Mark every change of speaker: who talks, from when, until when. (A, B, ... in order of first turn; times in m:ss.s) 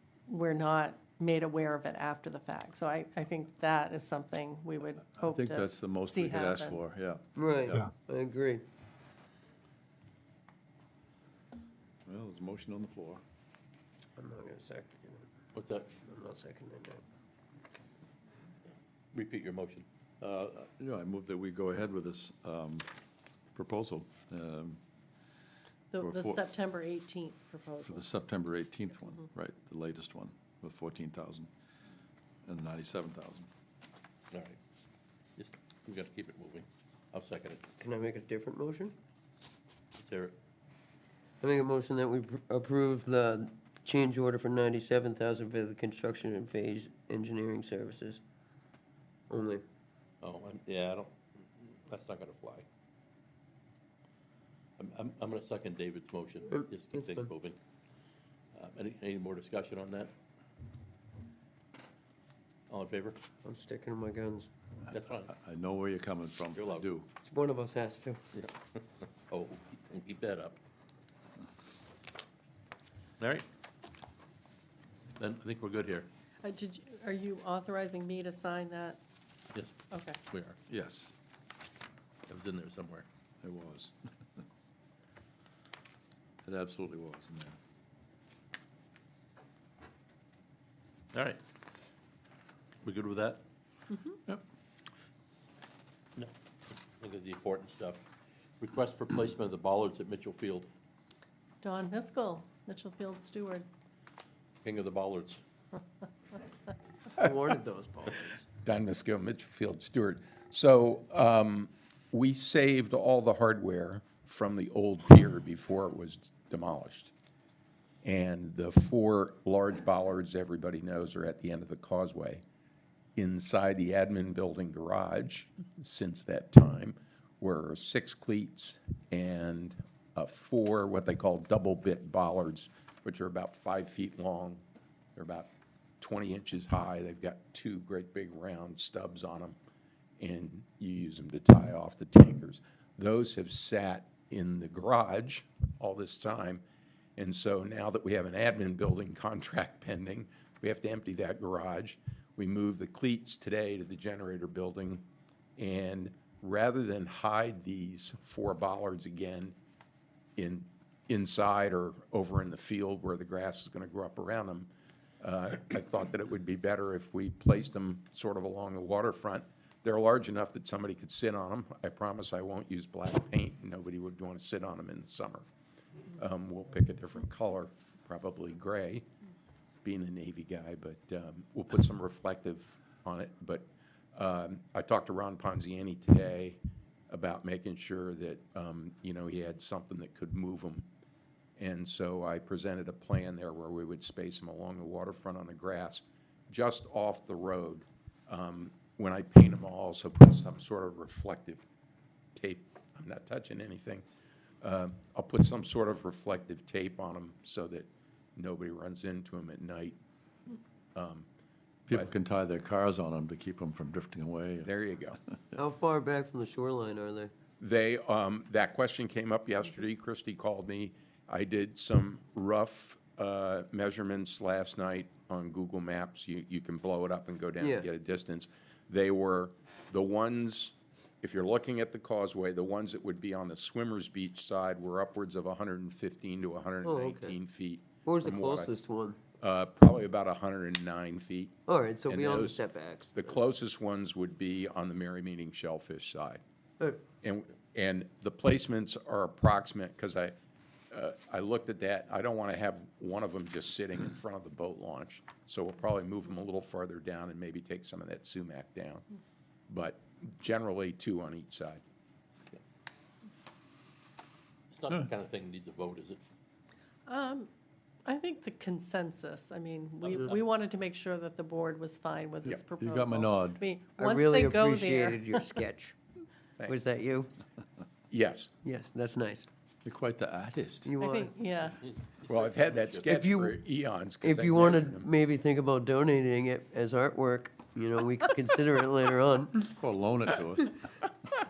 0:00.3-0:06.8 A
0:05.2-0:07.9 B
0:07.4-0:08.6 C
0:12.0-0:13.2 B
0:14.2-0:15.2 C
0:15.5-0:15.9 D
0:16.0-0:17.0 C
0:19.1-0:19.8 D
0:20.2-0:22.9 B
0:23.5-0:24.8 B
0:25.9-0:28.1 A
0:26.0-0:26.5 B
0:27.8-0:31.5 B
0:32.4-0:33.5 B
0:34.3-0:34.6 D
0:35.4-0:37.6 D
0:37.8-0:38.9 C
0:40.0-0:40.3 D
0:41.4-0:48.2 C
0:49.3-0:49.6 C
0:50.2-0:52.6 D
0:54.8-0:57.6 D
0:56.5-0:57.3 C
0:58.5-1:00.1 D
1:02.7-1:03.2 D
1:03.4-1:04.5 C
1:04.9-1:05.3 D
1:05.3-1:07.1 B
1:06.5-1:06.9 D
1:07.2-1:08.2 C
1:08.3-1:10.6 D
1:13.2-1:13.4 D
1:15.2-1:16.1 D
1:16.4-1:19.0 A
1:19.9-1:20.2 A
1:20.3-1:20.6 D
1:20.7-1:21.1 B
1:22.3-1:23.0 D
1:23.4-1:24.4 B
1:26.4-1:27.6 B
1:31.1-1:31.4 D
1:32.8-1:33.4 D
1:37.0-1:38.0 D
1:38.6-1:40.7 D
1:41.6-1:43.6 A
1:44.6-1:45.4 D
1:47.2-1:48.4 C
1:48.6-1:57.1 E
1:58.0-2:02.4 E
2:03.2-2:14.6 E
2:15.2-2:19.6 E
2:20.2-2:26.6 E
2:27.2-2:35.0 E
2:35.6-2:39.5 E
2:40.4-2:44.7 E
2:45.2-2:55.4 E
2:56.1-2:59.0 E
2:59.8-3:10.9 E
3:11.6-3:21.6 E
3:22.3-3:24.0 E
3:24.6-3:30.0 E
3:30.9-3:31.2 E
3:31.9-3:34.7 B
3:34.6-3:35.2 E
3:35.5-3:37.3 C
3:37.6-3:58.7 E
3:47.6-3:47.9 C
3:56.8-3:57.3 C
3:58.0-3:59.2 C
3:59.4-4:02.6 E
4:01.6-4:03.3 C
4:03.1-4:06.4 E
4:07.2-4:10.3 E
4:10.9-4:19.0 E
4:19.7-4:21.8 E
4:24.7-4:26.2 D
4:27.1-4:27.5 A
4:28.0-4:35.5 A
4:32.7-4:33.6 B
4:34.0-4:36.0 C
4:36.7-4:37.3 C
4:38.1-4:38.5 E
4:38.6-4:39.5 C
4:39.8-4:40.9 B
4:40.8-4:41.3 C
4:41.0-4:41.8 A
4:41.8-4:43.1 D
4:42.3-4:45.1 E
4:43.1-4:43.6 C
4:44.2-4:49.6 C
4:49.6-4:50.8 B